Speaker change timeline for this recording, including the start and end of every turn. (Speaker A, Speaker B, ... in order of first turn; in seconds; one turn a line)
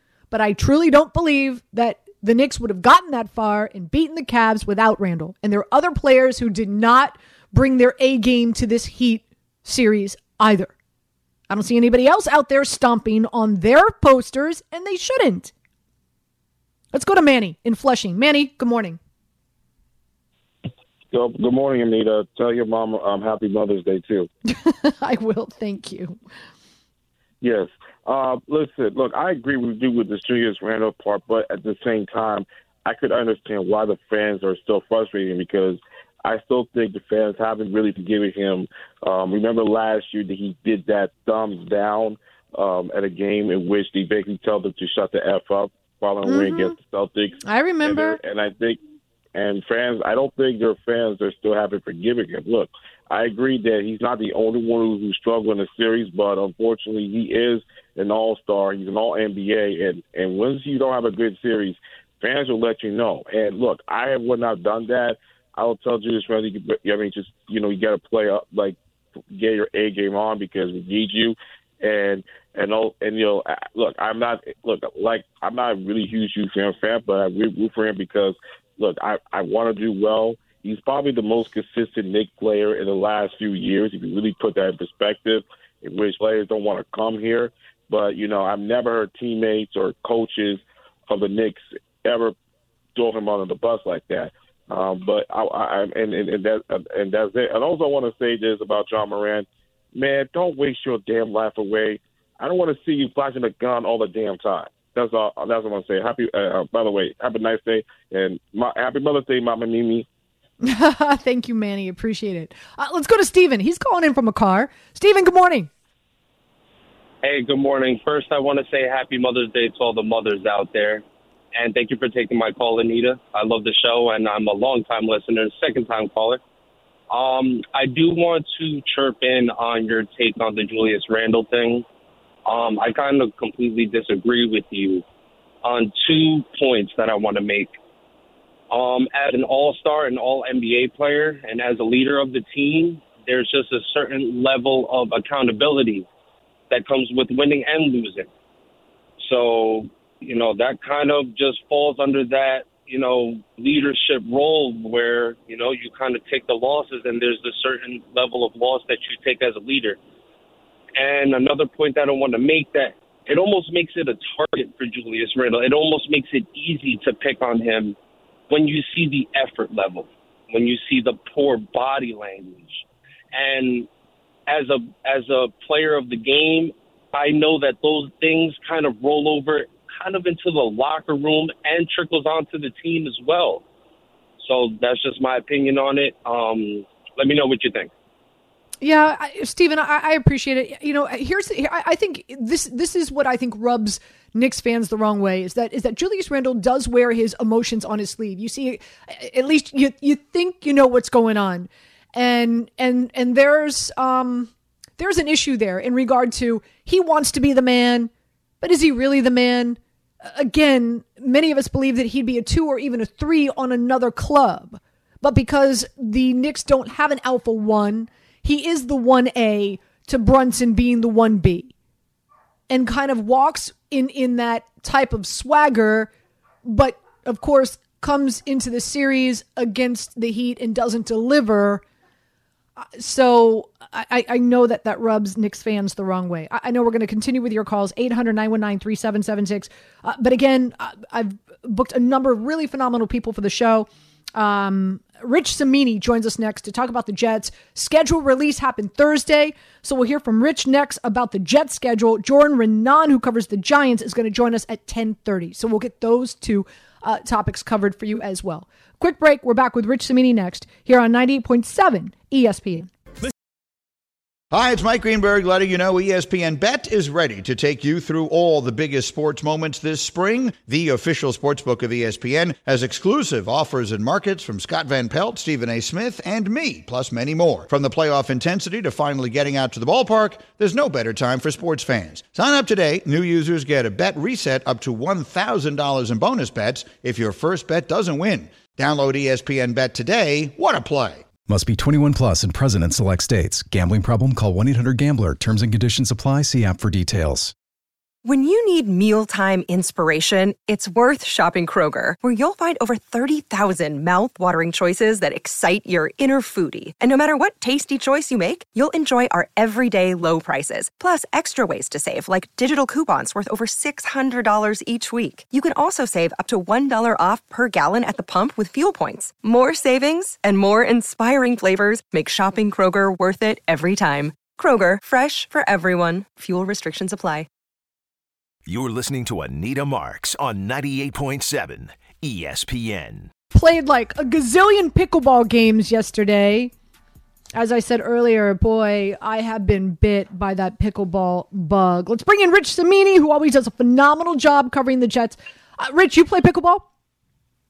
Speaker A: 0.3-10.7
Speaker A: 11.5-15.5
Speaker A: 16.9-19.0
Speaker B: 21.1-24.3
Speaker A: 24.4-26.2
Speaker B: 27.4-48.8
Speaker A: 46.2-46.7
Speaker A: 47.4-48.2
Speaker B: 49.3-68.8
Speaker B: 69.3-92.3
Speaker B: 92.9-110.0
Speaker A: 110.6-115.7
Speaker C: 117.2-121.0
Speaker C: 121.5-126.4
Speaker C: 127.1-131.8
Speaker C: 132.4-135.0
Speaker C: 135.6-137.7
Speaker C: 138.7-146.1
Speaker C: 146.7-148.3
Speaker C: 149.2-160.0
Speaker C: 160.9-167.9
Speaker C: 168.5-173.9
Speaker C: 174.5-183.6
Speaker C: 184.4-187.9
Speaker A: 188.8-208.1
Speaker A: 208.6-221.7
Speaker A: 222.7-226.1
Speaker A: 226.6-231.8
Speaker A: 232.8-262.9
Speaker D: 264.5-291.2
Speaker E: 291.5-297.5
Speaker F: 298.2-327.5
Speaker G: 328.6-333.3
Speaker A: 333.5-336.7
Speaker A: 337.5-346.9